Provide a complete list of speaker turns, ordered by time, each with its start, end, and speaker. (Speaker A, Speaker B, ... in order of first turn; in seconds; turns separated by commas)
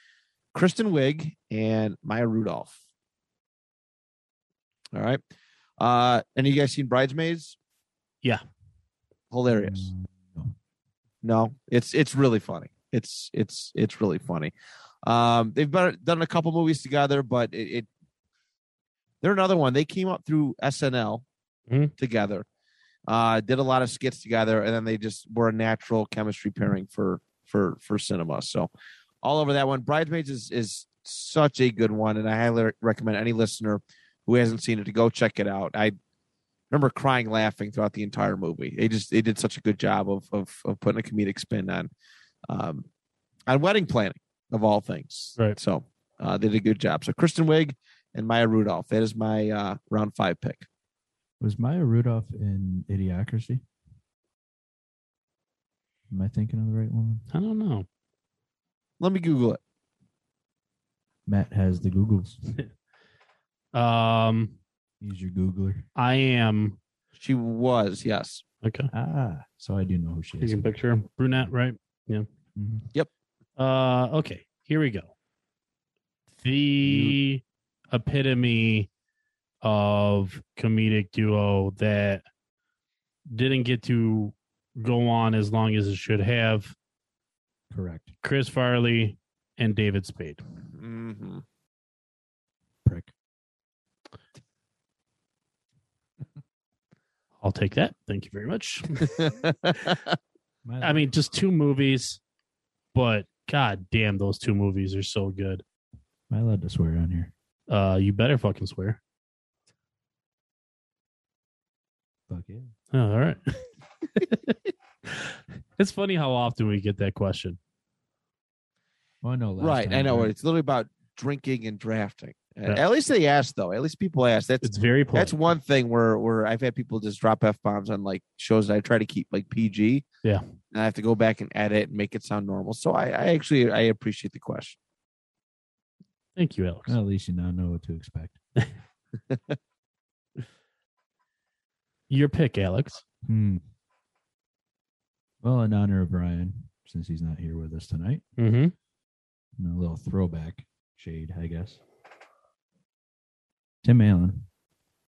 Speaker A: 0.5-2.8, Speaker A: 4.9-5.2, Speaker A: 5.8-7.6, Speaker A: 9.3-9.9, Speaker B: 9.5-10.5, Speaker A: 11.2-14.5, Speaker A: 15.0-17.9, Speaker A: 19.2-21.2, Speaker A: 22.0-22.4, Speaker A: 23.1-28.7, Speaker A: 29.2-35.9, Speaker A: 36.7-41.9, Speaker A: 42.5-42.9, Speaker A: 43.5-50.7, Speaker B: 51.4-53.6, Speaker B: 56.1-57.2, Speaker C: 57.3-57.9, Speaker A: 59.0-59.6, Speaker B: 61.2-62.4, Speaker C: 63.7-64.6, Speaker B: 65.0-65.8, Speaker C: 66.0-66.8, Speaker A: 67.2-68.4, Speaker C: 68.6-68.9, Speaker B: 68.9-70.8, Speaker C: 70.4-72.2, Speaker B: 72.5-72.9, Speaker C: 73.6-75.1, Speaker C: 76.4-78.9, Speaker B: 76.8-77.1, Speaker C: 79.6-82.2, Speaker C: 83.3-86.7, Speaker B: 87.7-88.1, Speaker C: 88.2-90.4, Speaker A: 90.7-91.4, Speaker B: 92.8-93.1, Speaker C: 97.4-99.2, Speaker A: 99.1-100.1, Speaker B: 100.6-101.1, Speaker C: 100.8-102.2, Speaker C: 102.9-105.6, Speaker B: 106.3-107.3, Speaker C: 107.7-109.0, Speaker B: 112.3-112.7, Speaker C: 112.9-114.5, Speaker C: 115.1-117.6, Speaker B: 119.2-120.3, Speaker A: 119.6-130.0, Speaker C: 124.6-125.3, Speaker A: 130.7-134.8, Speaker C: 136.3-137.0, Speaker B: 136.9-138.4, Speaker A: 139.3-139.6, Speaker C: 142.1-143.0, Speaker B: 143.2-143.6, Speaker B: 145.4-148.2, Speaker C: 148.4-148.7, Speaker B: 149.6-151.8, Speaker B: 153.8-154.4